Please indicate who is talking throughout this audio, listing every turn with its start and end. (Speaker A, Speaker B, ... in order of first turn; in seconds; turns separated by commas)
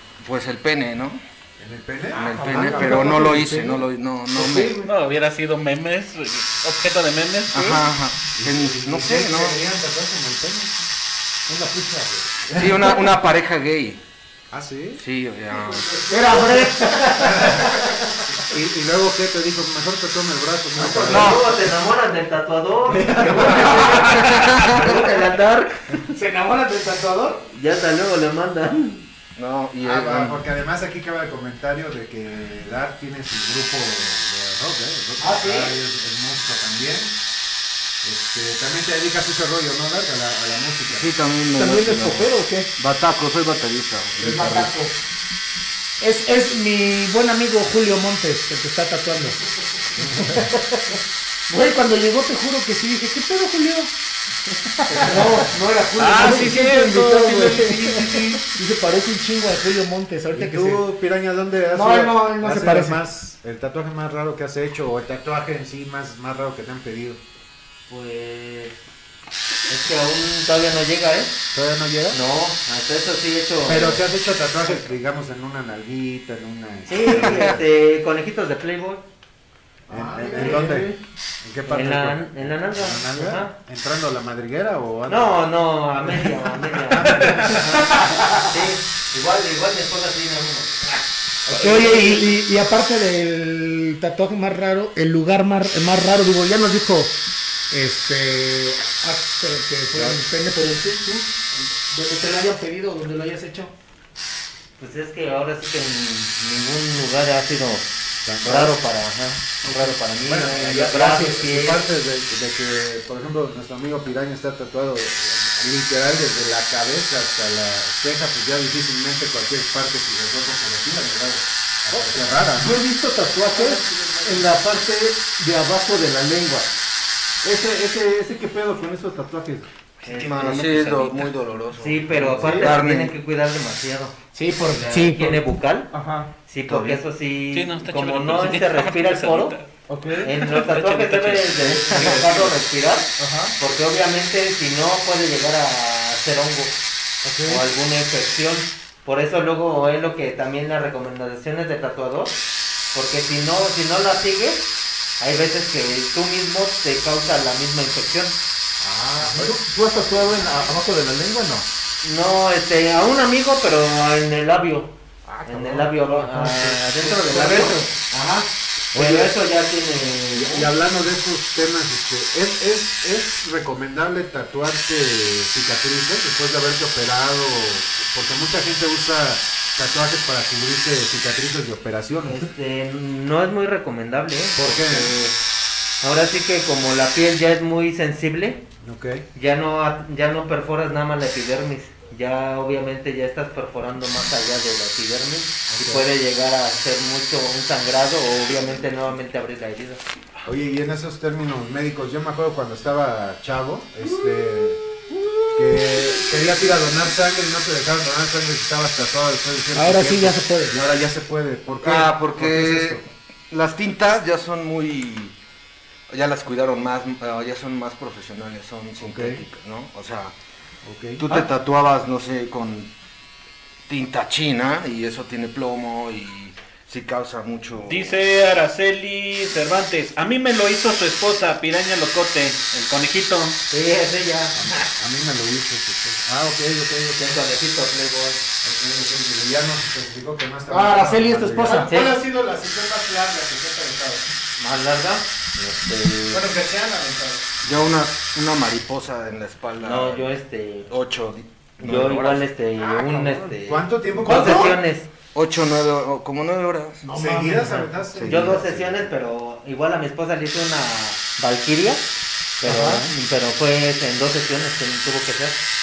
Speaker A: 0.2-1.2, Speaker B: 1.6-3.6, Speaker A: 2.1-4.8, Speaker C: 2.2-3.6, Speaker C: 4.3-4.8, Speaker D: 4.8-7.9, Speaker A: 7.5-9.6, Speaker B: 8.3-10.9, Speaker C: 11.5-12.9, Speaker A: 12.5-14.0, Speaker B: 14.5-15.0, Speaker A: 14.9-16.0, Speaker E: 16.1-17.7, Speaker B: 17.1-21.5, Speaker F: 20.8-26.0, Speaker A: 21.1-21.4, Speaker C: 22.9-23.8, Speaker B: 23.1-23.8, Speaker E: 23.4-24.1, Speaker A: 24.0-24.8, Speaker E: 26.1-27.4, Speaker F: 27.5-29.0, Speaker A: 29.4-30.4, Speaker B: 29.8-37.1, Speaker E: 35.2-35.8, Speaker B: 38.0-41.1, Speaker A: 40.9-44.7, Speaker C: 41.5-42.7, Speaker E: 44.2-44.9, Speaker E: 46.0-49.4, Speaker E: 50.0-51.0, Speaker E: 51.5-53.9, Speaker E: 54.9-60.8, Speaker D: 56.0-58.4, Speaker B: 60.3-67.2, Speaker E: 61.7-63.0, Speaker F: 67.9-68.8, Speaker F: 69.7-71.4, Speaker B: 71.5-72.2, Speaker F: 72.1-74.0, Speaker B: 73.6-77.6, Speaker F: 76.9-79.0, Speaker C: 79.9-81.0, Speaker B: 79.9-85.4, Speaker F: 81.7-83.5, Speaker F: 85.1-91.0, Speaker B: 86.9-88.0, Speaker D: 87.2-87.5, Speaker B: 91.5-91.8, Speaker E: 91.5-97.2, Speaker F: 91.9-92.2, Speaker E: 97.7-103.7, Speaker B: 99.9-100.2, Speaker F: 104.8-107.9, Speaker B: 108.2-108.8, Speaker F: 108.4-111.9, Speaker E: 109.6-111.4, Speaker B: 110.2-122.8, Speaker C: 121.9-126.7, Speaker C: 127.4-129.7, Speaker D: 130.0-131.4, Speaker F: 130.1-131.0, Speaker A: 130.2-133.1, Speaker F: 131.8-135.9, Speaker C: 132.1-132.7, Speaker E: 134.3-135.4, Speaker C: 135.9-136.3, Speaker F: 136.5-139.6, Speaker A: 136.7-137.0, Speaker D: 137.5-139.7, Speaker C: 139.9-140.3, Speaker F: 140.2-146.8, Speaker D: 140.3-142.4, Speaker A: 141.9-142.2, Speaker C: 143.2-143.5, Speaker C: 147.2-147.6, Speaker F: 147.4-152.4, Speaker F: 152.9-154.7, Speaker F: 155.2-158.4, Speaker C: 158.8-161.7, Speaker F: 162.0-164.9, Speaker C: 165.2-168.1, Speaker F: 165.4-170.7, Speaker B: 168.9-169.3, Speaker B: 170.3-182.5, Speaker F: 182.2-185.4, Speaker B: 184.6-185.1, Speaker F: 186.0-188.6, Speaker B: 188.8-189.2, Speaker F: 189.3-200.0, Speaker B: 195.7-196.1, Speaker B: 200.4-204.8, Speaker B: 205.5-213.0, Speaker E: 209.7-210.8, Speaker A: 211.8-215.3, Speaker A: 216.1-220.3, Speaker B: 219.0-219.4, Speaker B: 220.8-221.3, Speaker A: 221.2-222.9, Speaker A: 223.9-228.2, Speaker D: 227.8-233.6, Speaker F: 233.7-234.6, Speaker B: 234.5-237.4, Speaker F: 237.2-238.4, Speaker B: 238.6-242.1, Speaker E: 240.7-241.9, Speaker F: 241.8-242.1, Speaker G: 241.8-244.2, Speaker F: 244.6-246.5, Speaker G: 246.3-247.4, Speaker A: 247.6-250.3, Speaker F: 249.8-250.9, Speaker A: 250.9-252.4, Speaker F: 251.8-255.1, Speaker C: 252.9-253.5, Speaker B: 253.6-254.7, Speaker E: 254.2-254.7, Speaker A: 255.3-257.0, Speaker E: 257.0-257.9, Speaker B: 257.1-259.0, Speaker A: 258.1-258.8, Speaker F: 258.2-262.0, Speaker F: 262.6-265.6, Speaker C: 262.7-263.0